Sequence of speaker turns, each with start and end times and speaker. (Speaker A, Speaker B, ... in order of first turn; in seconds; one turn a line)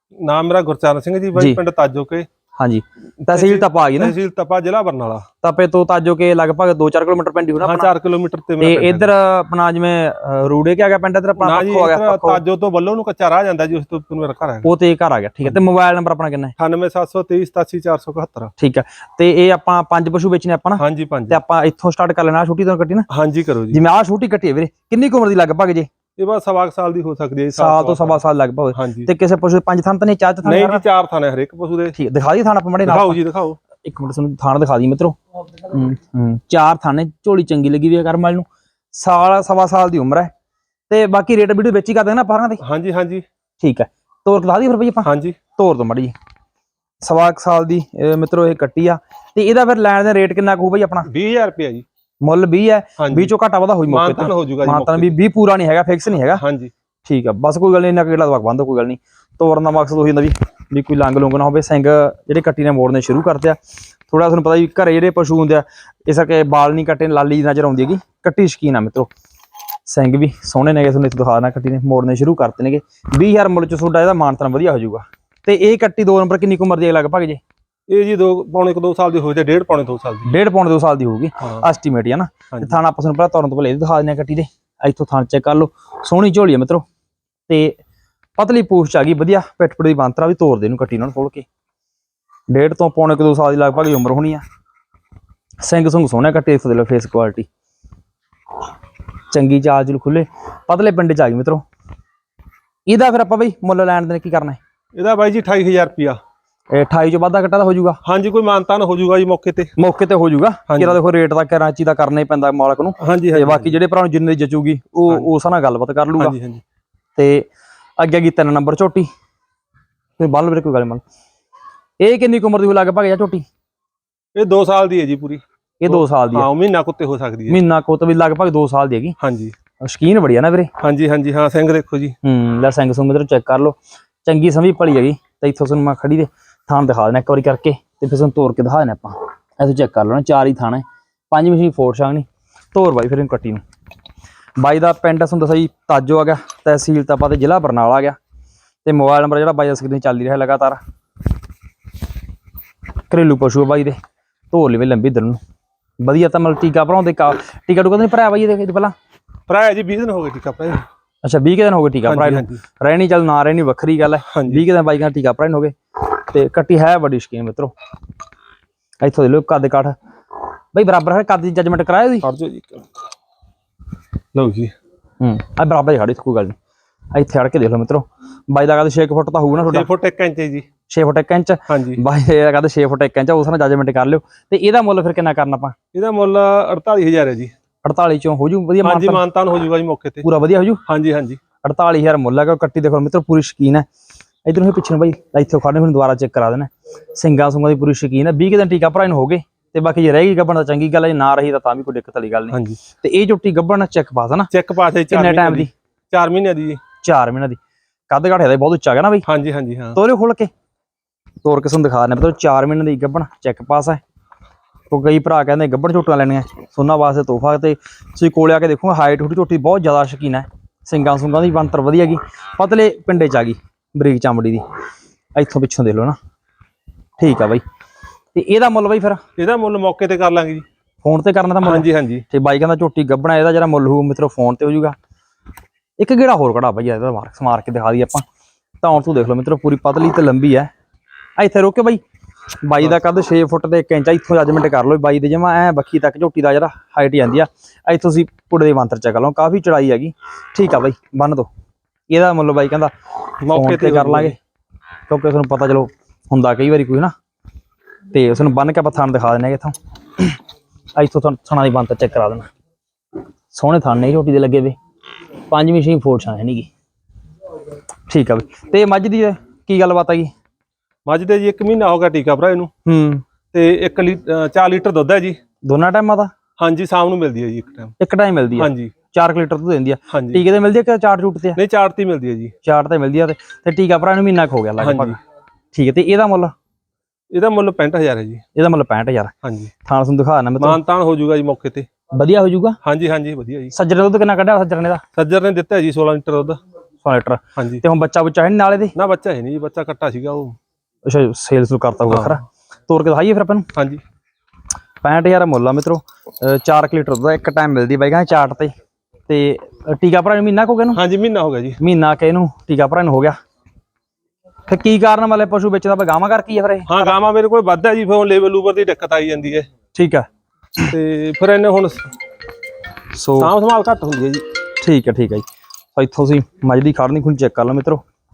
Speaker A: 0.2-2.3
Speaker B: 2.6-4.1
Speaker A: 3.3-5.2
Speaker B: 5.4-7.9
Speaker A: 7.6-9.1
Speaker B: 8.6-12.4
Speaker A: 11.4-14.7
Speaker B: 14.6-16.5
Speaker A: 16.6-18.5
Speaker B: 18.6-23.1
Speaker A: 20.8-21.4
Speaker A: 23.1-23.8
Speaker B: 23.7-25.9
Speaker A: 26.2-28.2
Speaker B: 27.5-30.8
Speaker A: 28.7-29.1
Speaker A: 30.4-32.0
Speaker B: 31.9-33.2
Speaker A: 32.8-33.6
Speaker B: 33.8-40.3
Speaker B: 40.9-42.6
Speaker A: 42.6-43.2
Speaker B: 43.6-46.1
Speaker A: 45.0-45.4
Speaker B: 47.0-51.1
Speaker A: 51.0-51.9
Speaker B: 52.2-56.4
Speaker A: 53.0-53.3
Speaker A: 53.9-55.1
Speaker A: 56.3-56.7
Speaker B: 57.0-63.6
Speaker B: 64.1-69.1
Speaker B: 69.8-77.4
Speaker A: 77.9-80.3
Speaker B: 80.2-86.8
Speaker B: 87.5-87.8
Speaker B: 88.4-91.5
Speaker B: 92.5-94.4
Speaker B: 95.6-97.5
Speaker B: 99.3-101.6
Speaker B: 102.8-104.6
Speaker A: 104.9-106.2
Speaker B: 106.7-108.0
Speaker A: 108.0-109.7
Speaker B: 109.8-116.3
Speaker A: 110.7-111.0
Speaker A: 113.0-113.8
Speaker A: 116.2-116.6
Speaker B: 117.2-117.5
Speaker B: 118.0-119.1
Speaker B: 120.2-121.0
Speaker B: 122.0-123.5
Speaker A: 124.3-127.6
Speaker B: 125.8-126.5
Speaker B: 127.5-129.2
Speaker A: 129.2-129.5
Speaker B: 129.8-130.7
Speaker A: 130.8-132.2
Speaker B: 132.2-143.6
Speaker B: 144.6-148.2
Speaker B: 148.8-150.8
Speaker B: 153.1-154.0
Speaker B: 154.5-155.4
Speaker B: 156.0-158.9
Speaker A: 159.5-160.8
Speaker B: 161.2-167.7
Speaker A: 162.1-162.6
Speaker A: 164.3-164.6
Speaker B: 169.0-169.9
Speaker B: 170.7-172.3
Speaker A: 172.2-172.9
Speaker A: 174.3-174.7
Speaker B: 175.2-176.5
Speaker B: 177.1-179.9
Speaker A: 179.7-180.7
Speaker B: 180.9-185.7
Speaker A: 181.7-182.0
Speaker A: 185.9-187.5
Speaker B: 187.8-189.2
Speaker A: 188.8-190.2
Speaker B: 190.2-190.8
Speaker A: 190.8-191.4
Speaker B: 191.6-193.8
Speaker B: 194.4-204.5
Speaker A: 202.5-202.8
Speaker A: 204.5-206.8
Speaker B: 205.1-205.7
Speaker B: 207.0-207.6
Speaker B: 208.1-209.2
Speaker A: 209.2-210.0
Speaker B: 209.9-210.5
Speaker B: 211.4-214.0
Speaker B: 214.9-224.6
Speaker B: 225.3-226.2
Speaker B: 227.2-227.6
Speaker B: 228.3-229.2
Speaker A: 229.4-230.6
Speaker B: 231.0-234.9
Speaker A: 231.6-232.2
Speaker B: 236.0-238.2
Speaker B: 238.8-240.7
Speaker B: 241.4-242.0
Speaker B: 242.6-251.5
Speaker B: 252.1-252.9
Speaker A: 253.4-254.3
Speaker B: 253.5-254.4
Speaker B: 255.1-257.1
Speaker B: 258.1-260.4
Speaker B: 260.9-262.5
Speaker B: 263.5-264.8
Speaker B: 265.5-266.7
Speaker B: 268.1-270.3
Speaker A: 271.1-272.7
Speaker B: 272.9-273.2
Speaker A: 273.5-275.4
Speaker B: 275.6-276.3
Speaker A: 276.6-277.9
Speaker B: 278.0-281.6
Speaker A: 278.6-278.9
Speaker A: 280.1-280.4
Speaker A: 281.6-282.5
Speaker B: 282.6-285.2
Speaker A: 284.8-285.2
Speaker B: 285.7-286.5
Speaker A: 287.3-288.4
Speaker B: 288.5-289.3
Speaker A: 289.4-289.7
Speaker B: 289.8-290.8
Speaker A: 290.6-291.9
Speaker B: 292.1-292.8
Speaker A: 292.8-293.7
Speaker B: 293.7-295.0
Speaker A: 295.1-296.6
Speaker B: 297.0-298.9
Speaker A: 297.6-297.8
Speaker A: 298.9-300.6
Speaker B: 301.1-303.7
Speaker A: 302.1-302.4
Speaker A: 303.7-304.0
Speaker B: 305.0-308.7
Speaker B: 309.3-311.0
Speaker A: 310.9-311.8
Speaker B: 311.8-313.4
Speaker B: 314.7-317.1
Speaker A: 316.9-319.7
Speaker B: 319.9-320.3
Speaker A: 320.9-322.1
Speaker B: 323.1-323.5
Speaker A: 323.4-324.4
Speaker B: 324.8-328.0